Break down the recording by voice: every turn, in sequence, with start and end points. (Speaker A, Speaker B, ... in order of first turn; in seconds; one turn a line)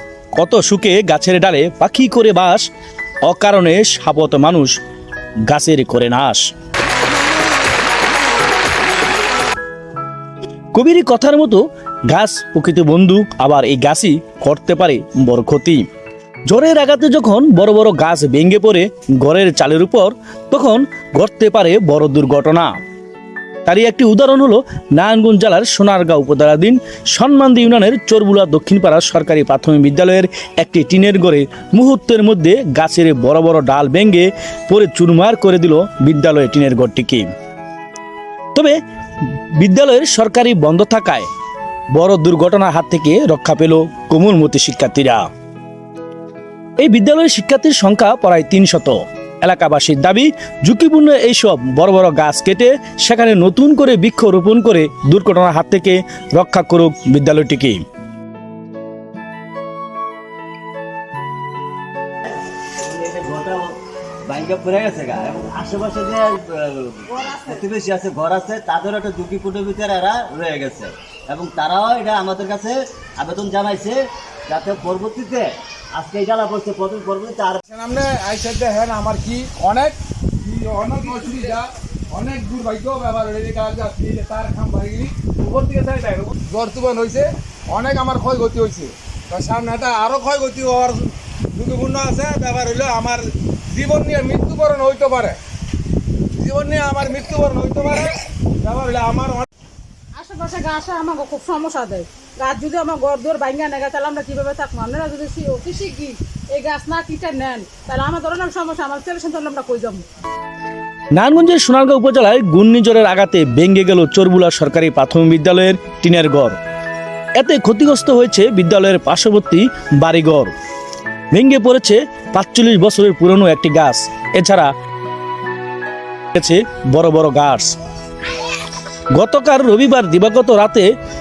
Speaker A: 0.4-2.6
Speaker A: 3.2-4.8
Speaker A: 5.5-6.5
Speaker A: 10.7-15.8
Speaker A: 16.5-22.7
Speaker A: 23.6-37.3
Speaker A: 39.6-41.3
Speaker A: 41.9-45.3
Speaker A: 46.8-57.8
Speaker B: 62.8-77.6
Speaker C: 67.1-67.6
Speaker D: 77.7-95.4
Speaker D: 96.4-99.5
Speaker C: 100.2-110.0
Speaker A: 111.1-116.6
Speaker A: 117.4-120.5
Speaker A: 121.3-124.7
Speaker A: 126.3-127.8
Speaker A: 129.1-130.9